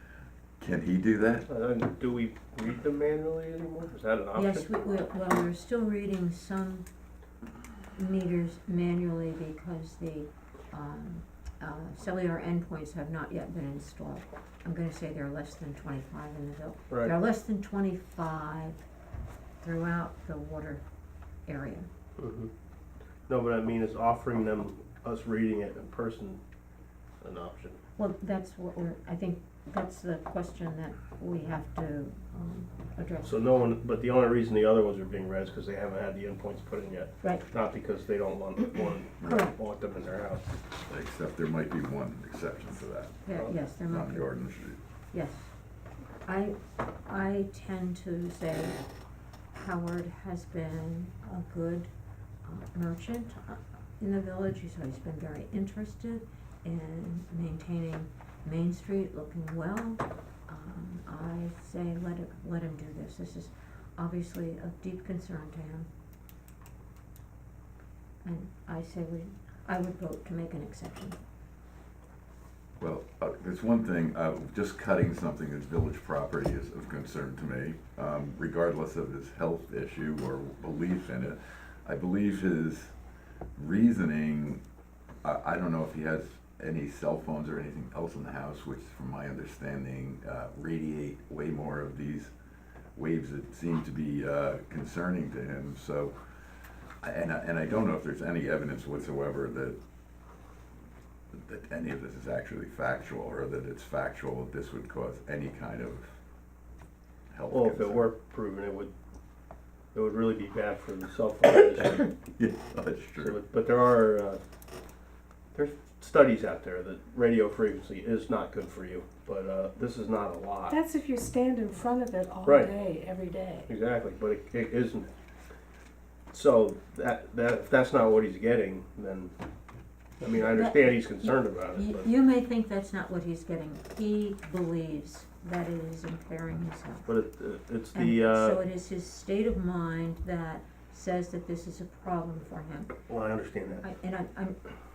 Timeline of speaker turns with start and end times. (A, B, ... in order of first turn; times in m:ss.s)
0:00.6-0:01.5 A
0:01.5-0:05.0 B
0:04.3-0:06.8 C
0:07.9-0:18.8 C
0:19.6-0:20.8 C
0:21.4-0:21.9 C
0:22.2-0:22.5 B
0:23.3-0:26.4 B
0:27.2-0:27.8 B
0:28.0-0:33.4 C
0:33.2-0:40.5 B
0:39.2-0:39.6 C
0:40.9-0:43.2 A
0:43.2-0:44.3 C
0:43.9-0:44.8 A
0:45.1-0:45.5 C
0:46.2-0:48.8 C
0:49.5-0:51.9 C
0:52.4-1:05.9 C
1:08.2-1:11.2 C
1:12.8-1:22.9 A
1:23.6-1:24.6 A
1:25.2-1:32.3 A
1:32.9-1:36.2 A
1:37.0-1:39.8 A
1:41.3-1:46.1 A
1:47.3-1:48.1 A
1:47.5-1:48.9 B
1:49.9-1:52.1 B
1:51.9-1:53.4 A
1:53.2-1:54.4 B
1:55.5-2:00.8 B
2:00.7-2:03.7 D
2:02.4-2:02.7 B
2:03.7-2:05.1 B
2:06.3-2:09.3 B
2:10.2-2:12.1 B
2:10.4-2:17.1 C
2:17.0-2:18.6 B
2:17.9-2:23.0 C
2:23.1-2:23.8 B
2:23.8-2:24.6 C